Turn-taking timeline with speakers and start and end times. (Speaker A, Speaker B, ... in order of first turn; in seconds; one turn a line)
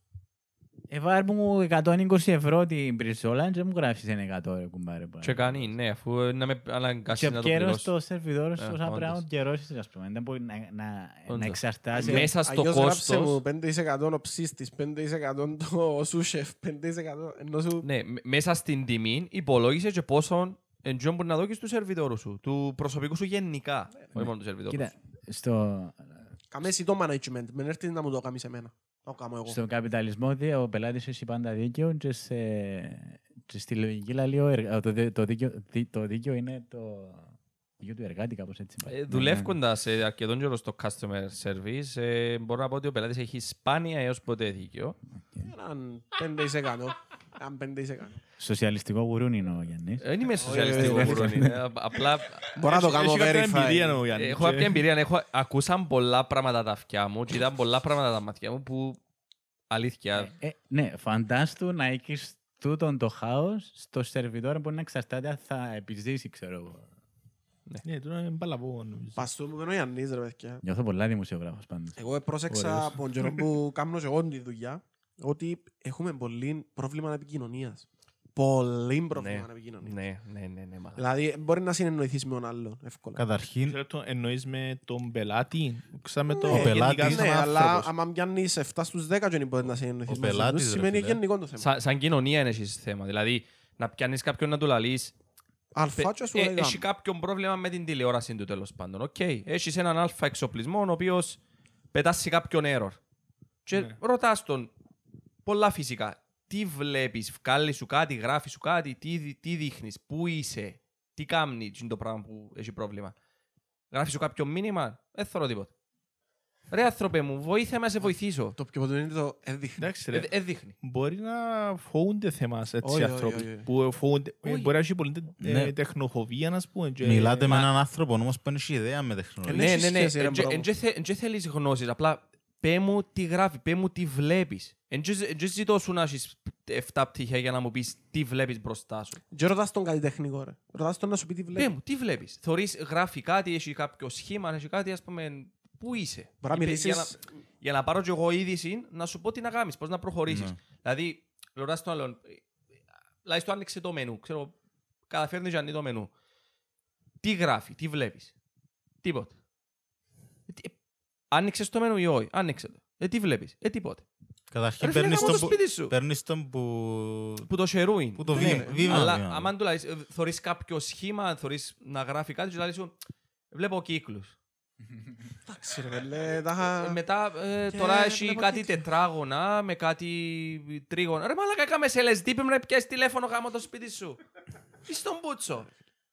Speaker A: 0.9-5.7
Speaker B: 5.2-7.9
Speaker A: 7.1-12.3
Speaker B: 8.6-9.2
Speaker B: 11.3-13.4
Speaker C: 11.9-17.9
Speaker B: 17.8-24.9
Speaker A: 24.2-26.3
Speaker C: 26.5-29.6
Speaker A: 29.5-39.5
Speaker B: 38.9-45.0
Speaker A: 45.2-45.5
Speaker C: 45.5-48.2
Speaker A: 48.4-51.6
Speaker B: 50.0-52.5
Speaker C: 50.4-51.3
Speaker C: 52.5-54.0
Speaker D: 52.6-54.8
Speaker B: 54.2-59.0
Speaker B: 59.7-60.3
Speaker A: 60.1-66.9
Speaker D: 67.8-69.2
Speaker C: 69.2-70.6
Speaker A: 70.6-73.0
Speaker C: 72.0-80.0
Speaker B: 79.2-81.0
Speaker C: 81.0-83.2
Speaker E: 83.2-83.8
Speaker D: 83.7-87.8
Speaker C: 86.4-91.7
Speaker E: 86.5-87.8
Speaker E: 90.1-91.2
Speaker B: 91.6-95.1
Speaker C: 95.7-96.8
Speaker B: 96.0-101.4
Speaker B: 101.9-103.0
Speaker B: 103.7-104.7
Speaker B: 105.5-113.2
Speaker B: 113.9-115.7
Speaker B: 116.7-118.6
Speaker C: 118.1-119.9
Speaker D: 119.8-127.6
Speaker B: 120.1-120.8
Speaker C: 122.8-123.7
Speaker B: 124.4-124.7
Speaker E: 125.4-125.7
Speaker E: 127.0-129.7
Speaker C: 129.5-130.7
Speaker B: 129.5-139.2
Speaker C: 139.3-141.8
Speaker B: 141.6-152.4
Speaker C: 146.4-147.3
Speaker E: 150.3-150.6
Speaker B: 153.2-154.5
Speaker B: 155.1-156.1
Speaker B: 157.2-158.3
Speaker B: 159.0-159.3
Speaker B: 160.5-160.8
Speaker B: 161.3-164.1
Speaker E: 164.5-167.5
Speaker B: 164.8-165.9
Speaker B: 167.5-172.9
Speaker E: 168.2-169.5
Speaker C: 168.3-169.1
Speaker B: 173.5-174.4
Speaker C: 175.5-177.0
Speaker B: 176.7-184.2
Speaker C: 177.7-178.8
Speaker B: 184.9-185.7